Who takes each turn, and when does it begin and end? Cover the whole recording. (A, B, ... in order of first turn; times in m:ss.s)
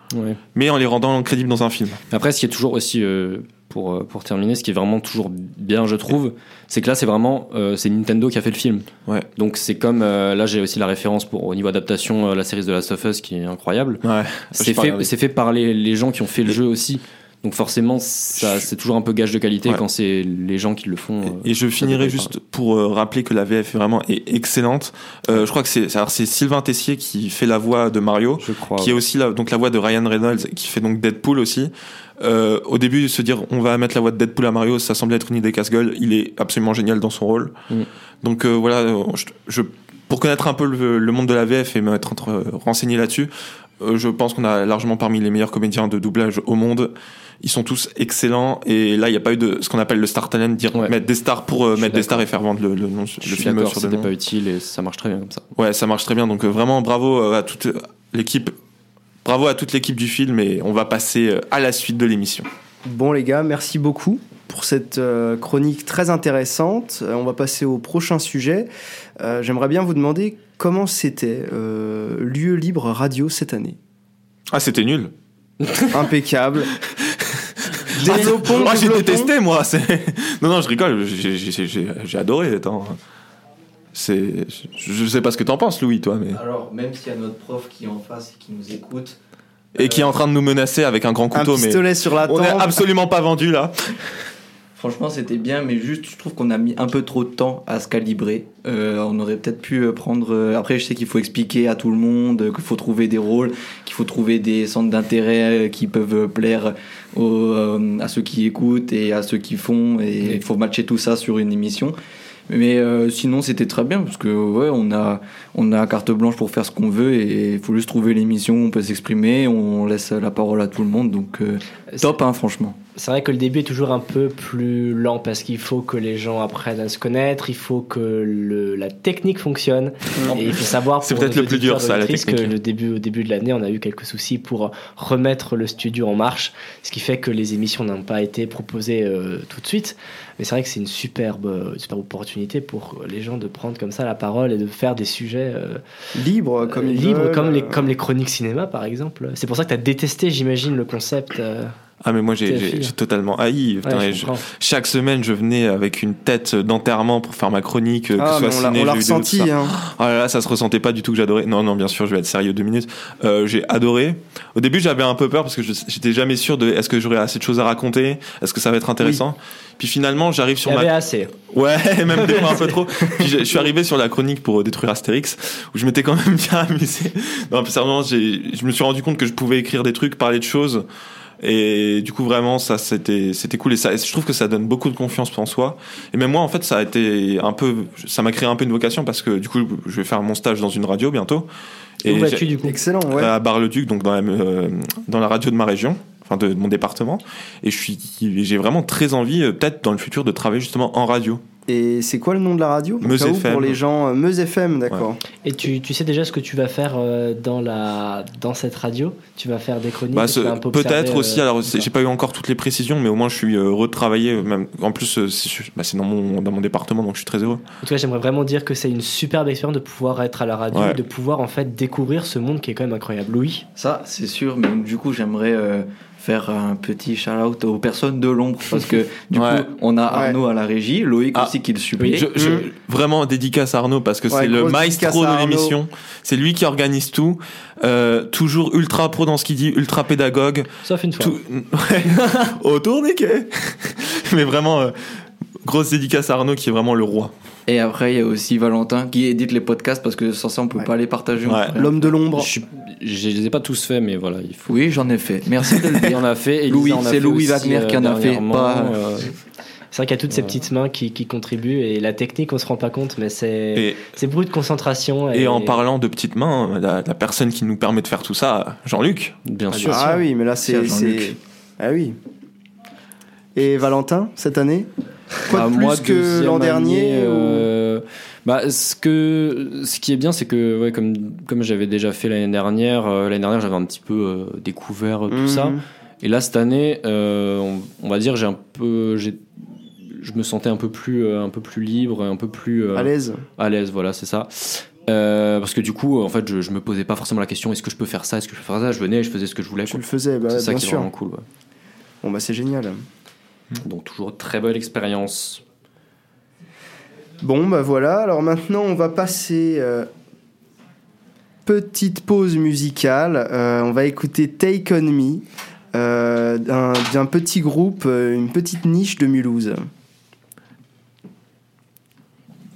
0:00.1-0:00.4 A
0:00.5-0:02.0 B
0:02.1-0:14.0 A
0:14.0-0:15.1 B
0:14.5-0:22.3 A
0:21.3-0:37.5 B
0:28.4-0:29.0 A
0:38.2-0:54.1 B
0:51.8-0:52.2 A
0:53.2-0:55.4 A
0:55.5-0:58.5 B
0:59.2-1:02.5 B
1:02.8-1:13.8 C
1:14.5-1:15.1 B
1:15.9-1:16.7 C
1:17.0-1:23.0 B
1:17.9-1:19.3 C
1:23.9-1:26.4 B
1:26.3-1:29.2 D
1:29.7-1:33.9 B
1:29.8-1:30.1 D
1:31.3-1:32.8 C
1:34.8-1:51.9 D
1:52.5-2:02.8 D
2:03.0-2:25.8 E
2:11.0-2:12.5 B
2:26.1-2:27.9 C
2:26.7-2:31.7 E
2:32.0-2:50.9 B
2:32.5-2:32.9 E
2:33.8-2:34.4 E
2:38.2-2:39.7 C
2:50.6-2:51.3 E
2:51.5-3:00.8 B
2:52.1-2:52.7 E
3:01.4-3:11.5 B
3:12.0-3:12.5 B
3:12.0-3:12.8 E
3:12.6-3:13.3 C
3:13.1-3:21.4 B
3:21.7-3:25.2 C
3:23.0-3:23.8 B
3:25.4-3:31.8 E
3:30.1-3:37.6 B
3:37.8-3:43.7 E
3:40.7-3:41.0 B
3:43.8-3:52.2 D
3:49.3-3:49.6 B
3:50.1-3:50.4 C
3:52.1-4:00.7 B
3:52.4-3:52.6 C
3:54.3-3:55.8 C
4:00.8-4:01.4 E
4:01.2-4:05.0 B
4:05.6-4:07.3 B
4:07.7-4:12.1 D
4:11.4-4:11.7 B
4:11.8-4:12.5 C
4:12.3-4:14.7 A
4:14.6-4:19.0 D
4:15.9-4:19.3 A
4:19.9-4:25.8 E
4:23.7-4:24.1 B
4:25.3-4:29.4 B
4:29.4-4:30.1 A
4:29.7-4:30.1 E
4:29.8-4:32.2 C
4:30.6-4:31.4 D
4:33.5-4:34.9 C
4:35.5-4:37.7 C
4:35.5-4:49.4 A
4:45.3-4:45.8 C
4:50.0-5:01.4 A
4:52.9-4:53.4 C
4:59.8-5:01.1 C
5:02.2-5:03.0 C
5:03.8-5:05.6 A
5:07.4-5:10.1 C
5:11.6-5:19.9 C